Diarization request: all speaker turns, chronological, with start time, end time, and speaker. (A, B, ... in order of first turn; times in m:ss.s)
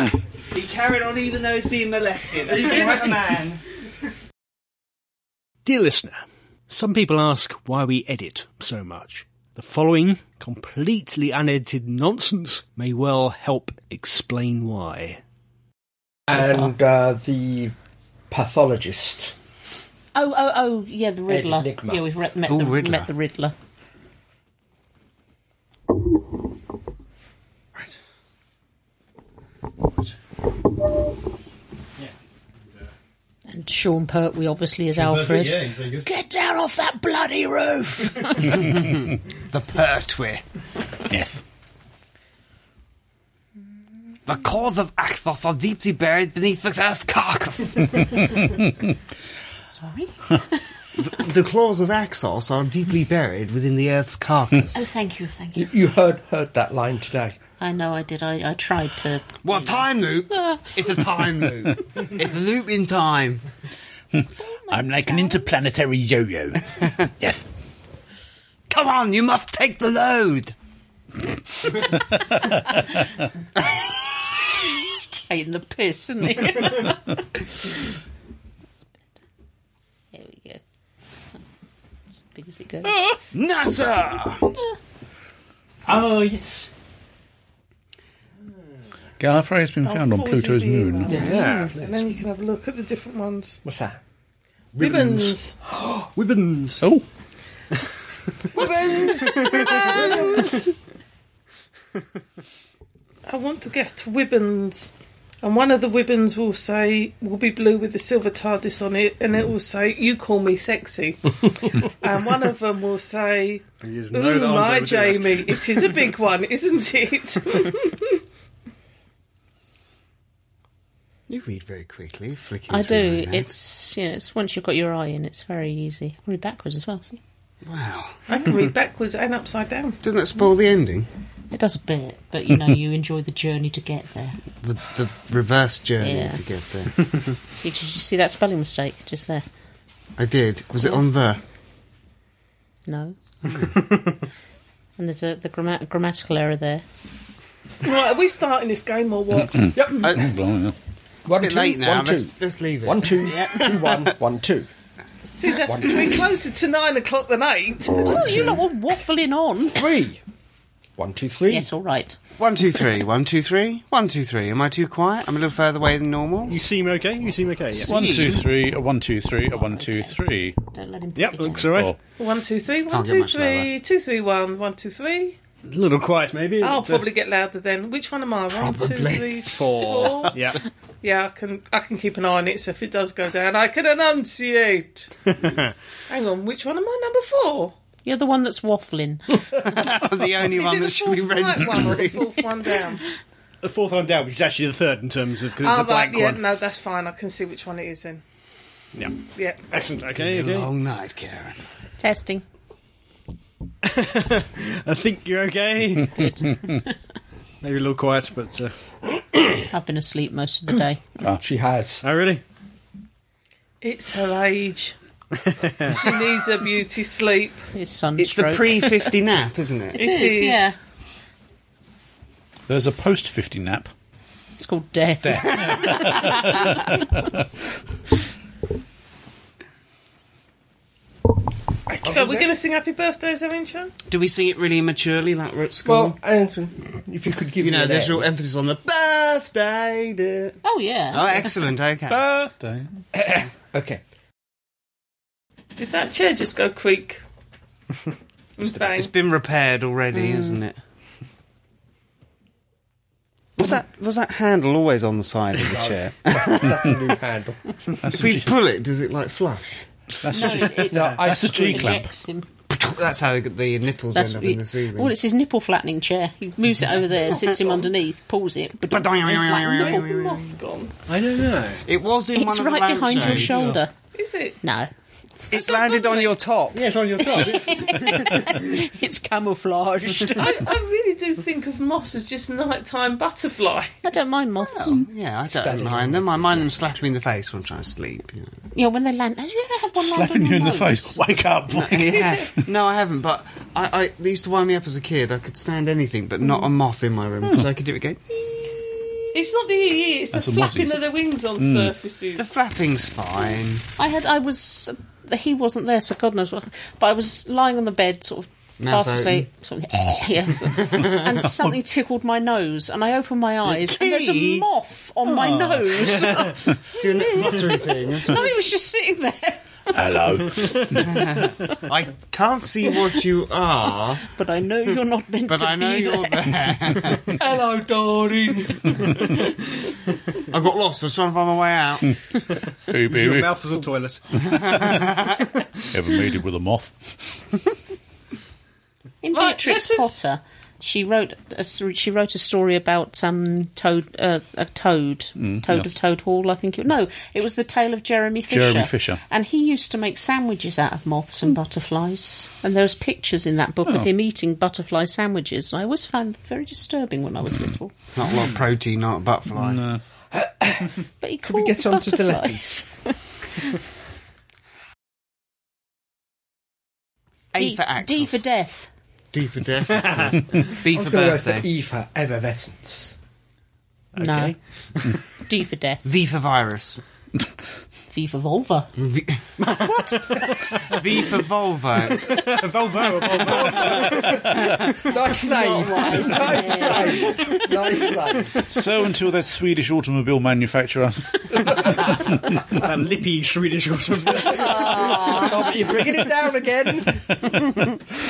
0:00.5-0:03.6 A
0:05.6-0:15.2 B
0:16.3-0:17.7 C
0:16.3-0:16.7 D
0:18.3-0:19.3 C
0:20.2-0:23.6 D
0:21.3-0:22.0 C
0:22.5-0:23.1 A
0:33.5-0:38.7 D
0:35.0-0:36.0 B
0:39.5-0:40.4 A
0:41.1-0:41.4 E
0:44.3-0:48.4 A
0:48.4-0:48.7 E
0:49.8-0:50.6 D
0:51.0-0:54.9 A
0:54.8-0:55.7 D
0:55.6-0:57.4 C
0:57.6-1:00.7 D
0:59.4-1:03.4 A
1:04.1-1:07.4 E
1:04.4-1:05.8 D
1:08.7-1:10.5 A
1:13.6-1:14.2 A
1:15.3-1:17.2 D
1:20.1-1:20.6 D
1:22.3-1:23.0 D
1:22.9-1:23.2 E
1:23.3-1:24.5 A
1:25.9-1:26.7 B
1:29.2-1:31.2 E
1:29.8-1:33.6 F
1:31.1-1:31.7 D
1:31.1-1:31.9 B
1:33.6-1:34.0 C
1:34.8-1:35.6 F
1:34.8-1:35.4 B
1:35.8-1:36.1 C
1:36.1-1:36.8 B
1:36.8-1:37.1 E
1:38.5-1:40.6 C
1:39.1-1:40.6 B
1:39.4-1:39.7 D
1:43.3-1:44.9 F
1:45.4-1:58.2 F
1:53.8-1:55.9 B
2:01.3-2:03.5 A
2:02.7-2:07.2 D
2:07.6-2:08.7 A
2:08.3-2:10.0 F
2:10.0-2:11.1 A
2:11.5-2:14.4 D
2:14.6-2:17.1 A
2:16.0-2:16.4 D
2:17.5-2:19.4 D
2:20.2-2:21.4 A
2:22.9-2:23.2 D
2:25.0-2:26.8 D
2:27.8-2:29.9 F
2:29.6-2:30.8 E
2:29.8-2:30.1 C
2:31.3-2:32.3 C
2:31.4-2:33.2 A
2:32.8-2:34.7 C
2:33.2-2:33.8 D
2:35.4-2:38.6 F
2:35.6-2:36.3 C
2:38.0-2:39.8 D
2:39.8-2:40.2 C
2:41.0-2:41.7 C
2:41.5-2:42.2 D
2:42.4-2:46.6 A
2:46.5-2:47.9 B
2:47.9-2:50.6 E
2:47.9-2:48.4 D
2:47.9-2:48.4 A
2:49.5-2:51.8 D
2:51.2-2:52.0 B
2:51.6-2:52.0 E
2:52.2-2:55.4 F
2:52.9-2:53.7 A
2:55.6-2:57.1 B
2:56.6-3:00.4 F
2:58.5-3:00.5 A
2:59.5-3:00.6 B
3:01.0-3:05.1 F
3:05.3-3:05.7 B
3:06.1-3:07.8 F
3:08.0-3:09.4 D
3:09.6-3:12.4 A
3:10.4-3:13.0 F
3:13.6-3:16.4 B
3:15.5-3:18.2 F
3:19.0-3:20.7 B
3:19.3-3:19.8 F
3:20.2-3:21.6 A
3:22.0-3:22.4 D
3:23.8-3:26.4 B
3:27.6-3:28.7 B
3:29.7-3:31.0 D
3:31.2-3:32.0 C
3:32.0-3:32.4 B
3:33.8-3:35.0 F
3:35.4-3:36.0 B
3:35.9-3:37.6 F
3:37.7-3:39.1 D
3:38.2-3:40.0 A
3:39.9-3:40.8 F
3:40.0-3:40.8 D
3:42.7-3:43.9 E
3:44.6-3:46.6 D
3:45.2-3:47.4 E
3:51.9-3:53.9 F
3:52.0-3:52.5 C
3:54.1-3:56.2 A
3:55.9-3:58.3 C
3:57.6-4:00.6 A
4:00.6-4:01.5 D
4:01.1-4:02.2 A
4:02.1-4:03.0 E
4:03.1-4:04.0 C
4:05.8-4:07.2 F
4:08.6-4:09.1 F
4:08.7-4:10.8 A
4:10.2-4:10.6 D
4:13.6-4:16.9 A
4:15.7-4:17.8 C
4:18.0-4:18.6 E
4:18.1-4:19.9 A
4:20.2-4:22.1 E
4:20.3-4:22.5 D
4:20.9-4:21.9 C
4:22.7-4:25.1 A
4:24.1-4:30.0 D
4:27.4-4:27.9 F
4:28.9-4:30.6 A
4:29.4-4:30.9 F
4:31.1-4:31.8 B
4:31.9-4:33.8 A
4:32.4-4:33.9 D
4:33.2-4:33.8 B
4:34.1-4:34.6 F
4:34.6-4:34.9 D
4:35.5-4:36.9 A
4:35.5-4:36.3 D
4:36.7-4:38.7 B
4:37.2-4:40.6 D
4:40.4-4:44.2 F
4:44.0-4:45.0 D
4:44.6-4:48.6 A
4:45.6-4:46.8 C
4:48.7-4:51.2 D
4:50.0-4:52.4 E
4:51.8-4:58.2 A
4:59.3-5:02.5 F
5:00.3-5:01.9 E
5:02.4-5:03.9 A
5:04.0-5:20.6 D
5:08.8-5:09.5 A
5:10.8-5:11.2 A
5:13.7-5:14.7 A
5:15.9-5:16.5 B
5:17.0-5:18.5 A
5:19.9-5:21.2 E
5:21.1-5:24.3 A
5:24.3-5:26.5 D
5:25.5-5:27.3 A
5:27.4-5:30.0 F
5:30.5-5:32.2 A
5:32.9-5:33.6 E
5:33.0-5:34.6 B
5:34.5-5:35.4 A
5:35.9-5:37.2 E
5:39.2-5:58.0 D
5:39.3-5:40.2 F
5:45.4-5:45.9 E
5:48.5-5:49.2 E
5:58.1-5:59.8 A
5:59.6-6:00.0 E
6:00.3-6:02.9 C
6:01.2-6:03.8 D
6:07.5-6:08.4 A
6:07.6-6:08.9 D
6:09.3-6:11.7 A
6:10.1-6:10.4 B
6:10.9-6:13.2 C
6:14.2-6:15.2 B
6:14.2-6:14.6 D
6:15.4-6:16.0 D
6:16.0-6:17.0 A
6:18.1-6:18.9 D
6:19.0-6:19.4 A
6:19.6-6:21.0 B
6:20.9-6:22.4 A
6:22.2-6:24.5 B
6:23.4-6:28.6 C
6:25.2-6:27.4 D
6:28.7-6:32.3 E
6:32.7-6:35.3 B
6:34.5-6:37.5 C
6:34.6-6:35.6 D